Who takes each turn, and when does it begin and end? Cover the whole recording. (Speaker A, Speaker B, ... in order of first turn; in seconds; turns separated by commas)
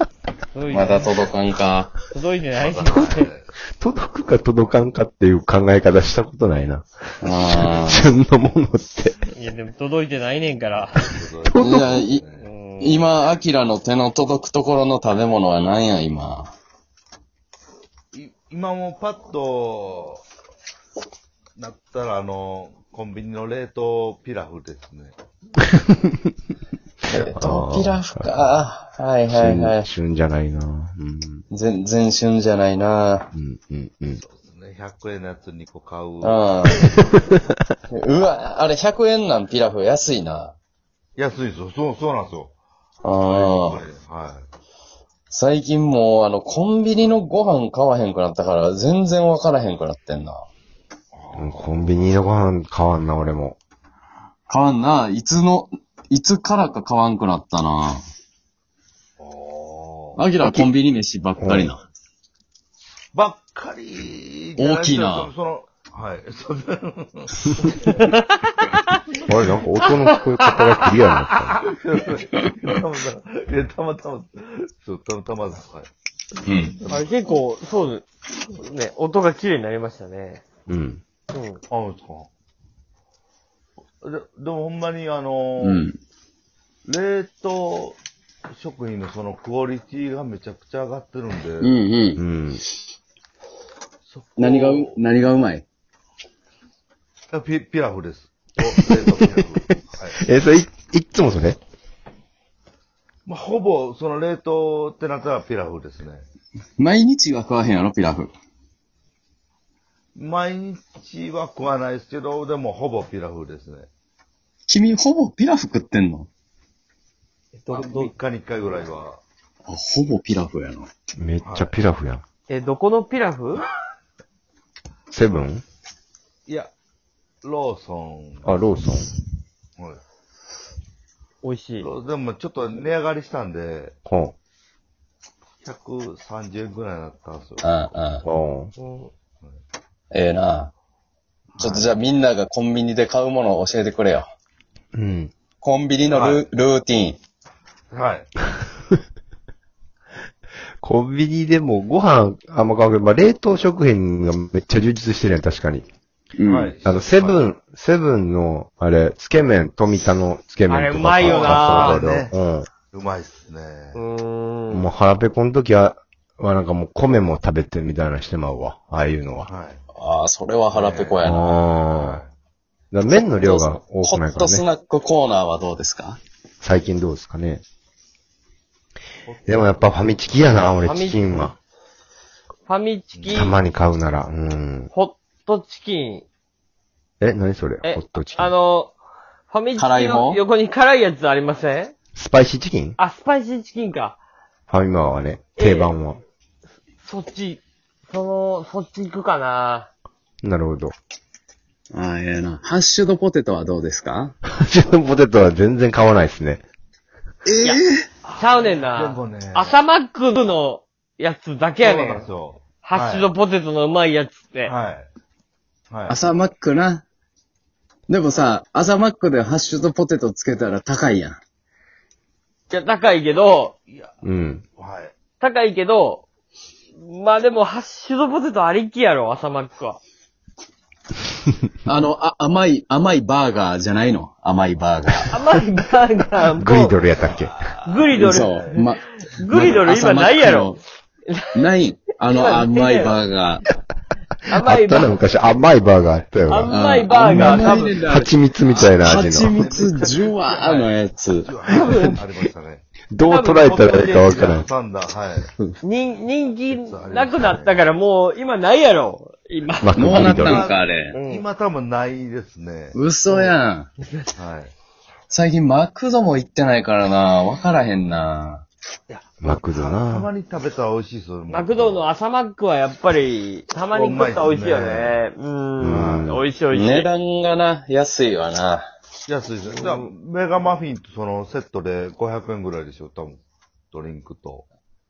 Speaker A: 0.5-1.1, Speaker B: 0.7-1.9, Speaker A: 2.1-3.3, Speaker C: 2.6-3.5, Speaker D: 3.8-9.2, Speaker B: 7.2-8.1, Speaker A: 9.3-11.1, Speaker C: 10.9-12.5, Speaker D: 11.5-11.9, Speaker B: 11.6-12.2, Speaker A: 12.4-13.1, Speaker B: 12.8-16.5, Speaker C: 18.1-20.2, Speaker C: 21.6-25.1, Speaker D: 25.9-26.3, Speaker B: 27.1-29.9, Speaker D: 27.1-28.2, Speaker D: 29.3-31.4, Speaker B: 31.5-33.3, Speaker D: 33.3-34.2, Speaker C: 34.2-36.4, Speaker B: 36.2-36.9, Speaker D: 36.8-37.4, Speaker B: 37.9-40.5, Speaker C: 41.2-42.5, Speaker B: 43.0-43.8, Speaker C: 43.2-44.5, Speaker B: 45.3-50.5, Speaker C: 51.1-51.9, Speaker D: 51.4-53.6, Speaker B: 54.5-58.0, Speaker C: 59.2-60.2, Speaker B: 60.2-61.8, Speaker D: 60.4-60.7, Speaker D: 61.4-61.7, Speaker C: 63.1-67.8, Speaker B: 64.6-65.3, Speaker A: 67.8-69.0, Speaker D: 69.2-71.6, Speaker A: 69.8-70.6, Speaker C: 71.6-75.9, Speaker B: 76.5-76.8, Speaker A: 76.9-80.4, Speaker D: 80.7-81.0, Speaker A: 81.3-81.6, Speaker C: 81.7-82.3, Speaker C: 84.0-85.9, Speaker B: 85.6-86.0, Speaker C: 86.8-88.0, Speaker C: 88.5-91.7, Speaker B: 91.6-92.2, Speaker D: 92.2-92.6, Speaker C: 94.1-95.0, Speaker B: 94.4-95.6, Speaker C: 97.3-100.2, Speaker D: 99.0-99.3, Speaker D: 100.2-101.6, Speaker C: 103.3-106.3, Speaker B: 106.8-108.3, Speaker C: 110.2-113.9, Speaker B: 114.7-116.3, Speaker A: 117.6-118.1, Speaker C: 117.7-119.2, Speaker B: 119.7-120.9, Speaker D: 121.2-122.2, Speaker C: 121.4-121.8, Speaker A: 122.5-123.7, Speaker D: 125.1-125.6, Speaker C: 126.5-126.7, Speaker C: 127.4-128.5, Speaker D: 128.4-129.1, Speaker A: 131.4-131.9, Speaker C: 131.8-133.9, Speaker D: 134.1-134.3, Speaker C: 135.6-137.8, Speaker B: 137.6-138.2, Speaker D: 138.2-138.7, Speaker A: 138.8-139.1, Speaker B: 140.1-140.7, Speaker C: 141.6-141.9, Speaker B: 141.6-144.3, Speaker D: 144.9-145.3, Speaker B: 145.6-147.2, Speaker C: 146.1-146.5, Speaker C: 147.9-148.3, Speaker D: 150.8-155.9, Speaker B: 156.4-156.7, Speaker C: 156.4-157.4, Speaker D: 156.8-162.7, Speaker A: 160.7-162.0, Speaker C: 161.2-162.3, Speaker C: 162.9-164.0, Speaker A: 163.9-164.9, Speaker D: 164.7-169.5, Speaker C: 169.5-169.8, Speaker B: 170.0-171.6, Speaker C: 170.7-171.3, Speaker D: 171.2-172.2, Speaker C: 171.9-172.3, Speaker D: 172.9-174.7, Speaker B: 173.1-176.2, Speaker D: 176.6-177.6, Speaker C: 179.3-179.9, Speaker D: 179.5-181.5, Speaker A: 180.8-181.5, Speaker A: 182.7-183.6, Speaker C: 183.2-183.4, Speaker D: 183.3-184.9, Speaker A: 184.9-186.3, Speaker D: 187.2-188.6, Speaker A: 187.8-188.9, Speaker A: 189.5-191.9, Speaker B: 189.8-190.4, Speaker D: 192.2-193.0, Speaker A: 193.0-194.2, Speaker D: 194.7-196.2, Speaker A: 195.6-195.9, Speaker A: 197.0-199.9, Speaker D: 200.4-200.9, Speaker B: 201.9-204.3, Speaker D: 204.5-206.6, Speaker B: 207.5-208.0, Speaker C: 208.2-209.8, Speaker A: 208.3-212.3, Speaker C: 211.8-213.3, Speaker A: 212.8-214.7, Speaker C: 214.7-215.1, Speaker C: 215.9-216.2, Speaker B: 216.1-217.0, Speaker B: 218.1-221.4, Speaker A: 222.7-223.8, Speaker C: 223.9-224.1, Speaker D: 224.2-224.6, Speaker C: 224.8-225.1, Speaker A: 225.4-226.3, Speaker A: 227.0-230.0, Speaker B: 231.8-235.3, Speaker A: 235.3-237.0, Speaker D: 236.6-237.6, Speaker C: 237.2-238.8, Speaker A: 237.8-241.6, Speaker B: 238.1-240.8, Speaker B: 241.5-243.7, Speaker A: 242.2-243.2, Speaker A: 244.5-245.2, Speaker D: 244.6-249.7, Speaker A: 246.5-248.1, Speaker B: 246.7-251.5, Speaker C: 247.4-248.0, Speaker C: 248.6-252.8, Speaker A: 251.7-252.2, Speaker D: 251.7-252.0, Speaker D: 253.1-254.7, Speaker A: 253.2-253.8, Speaker C: 253.7-255.5, Speaker A: 255.8-260.2, Speaker C: 256.7-257.9, Speaker D: 259.8-260.7, Speaker B: 259.9-261.2, Speaker C: 260.1-263.0, Speaker A: 261.1-261.5, Speaker B: 262.9-263.9, Speaker A: 263.3-264.3, Speaker C: 264.4-264.7, Speaker B: 265.3-268.6, Speaker C: 269.1-272.1, Speaker D: 269.4-270.3, Speaker A: 271.5-277.1, Speaker C: 273.9-275.2, Speaker D: 275.8-276.5, Speaker C: 275.9-276.3, Speaker B: 276.7-278.9, Speaker C: 279.3-284.6, Speaker A: 279.7-280.1